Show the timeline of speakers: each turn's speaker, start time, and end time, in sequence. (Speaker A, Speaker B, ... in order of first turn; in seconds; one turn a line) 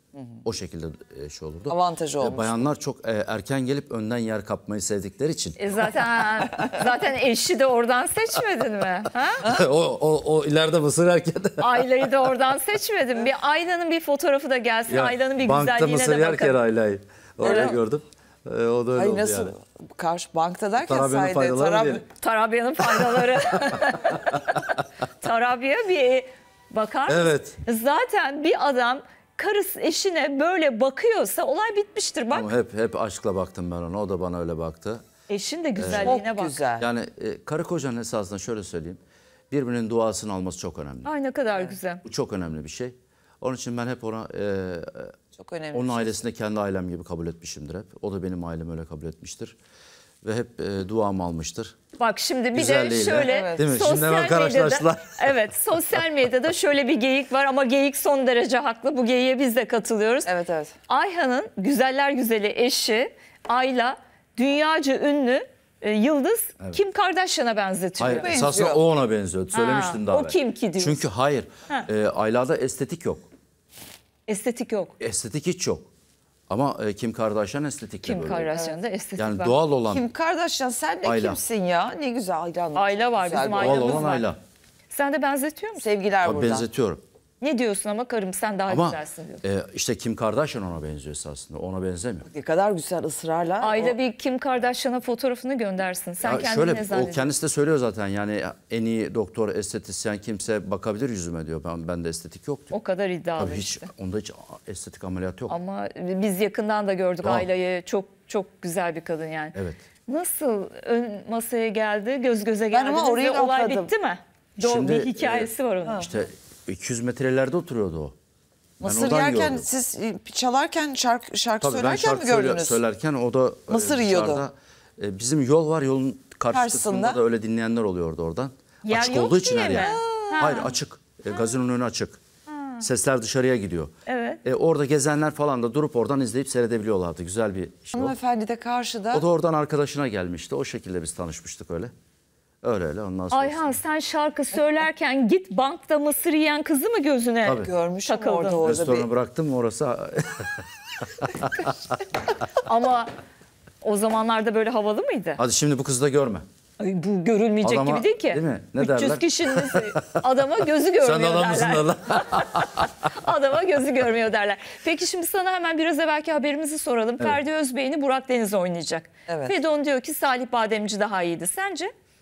Speaker A: 0.1-0.4
Speaker B: 0.4-5.6
Speaker A: 1.7-2.6
Speaker C: 5.6-9.4
Speaker B: 9.4-11.9
Speaker C: 11.6-16.6
Speaker B: 14.9-19.5
Speaker A: 17.4-17.8
Speaker C: 17.4-17.8
Speaker A: 18.9-22.0
Speaker B: 20.8-22.1
Speaker C: 22.2-32.5
Speaker B: 22.8-24.6
Speaker B: 27.1-27.6
Speaker B: 32.3-35.0
Speaker C: 35.3-36.6
Speaker B: 35.8-36.1
Speaker A: 35.9-36.9
Speaker B: 36.8-41.1
Speaker C: 41.0-42.0
Speaker B: 42.0-45.2
Speaker A: 45.4-46.2
Speaker B: 45.7-49.5
Speaker B: 50.2-51.8
Speaker C: 52.0-60.3
Speaker B: 52.5-55.4
Speaker A: 53.2-53.7
Speaker A: 60.3-60.8
Speaker C: 60.9-68.3
Speaker B: 68.0-73.2
Speaker A: 68.2-68.8
Speaker C: 69.5-71.0
Speaker C: 74.3-75.0
Speaker B: 75.0-75.9
Speaker B: 76.5-78.5
Speaker C: 78.0-79.5
Speaker B: 79.2-80.0
Speaker A: 79.9-84.1
Speaker B: 81.0-81.4
Speaker C: 82.8-84.3
Speaker B: 83.5-84.4
Speaker C: 84.9-85.9
Speaker A: 85.8-86.7
Speaker B: 86.2-87.0
Speaker C: 87.4-89.4
Speaker B: 88.7-92.3
Speaker A: 92.3-94.0
Speaker C: 93.6-97.3
Speaker B: 96.2-102.8
Speaker C: 102.7-103.9
Speaker B: 103.4-105.5
Speaker C: 105.5-109.5
Speaker B: 109.5-109.8
Speaker C: 110.1-116.1
Speaker A: 112.7-113.9
Speaker B: 114.6-118.1
Speaker B: 118.8-119.7
Speaker A: 118.8-122.8
Speaker B: 121.6-132.2
Speaker A: 123.7-124.4
Speaker A: 126.5-127.2
Speaker C: 128.8-130.6
Speaker A: 129.7-130.7
Speaker C: 132.5-132.8
Speaker B: 132.8-133.9
Speaker C: 134.1-134.4
Speaker B: 134.4-138.2
Speaker A: 137.9-139.2
Speaker B: 139.1-141.9
Speaker B: 142.6-143.8
Speaker C: 143.3-148.8
Speaker B: 147.4-147.7
Speaker A: 147.6-149.1
Speaker B: 148.6-151.7
Speaker C: 152.6-153.1
Speaker C: 153.8-155.4
Speaker B: 155.4-156.5
Speaker C: 156.8-171.9
Speaker B: 157.6-160.2
Speaker B: 161.0-162.9
Speaker A: 169.3-169.6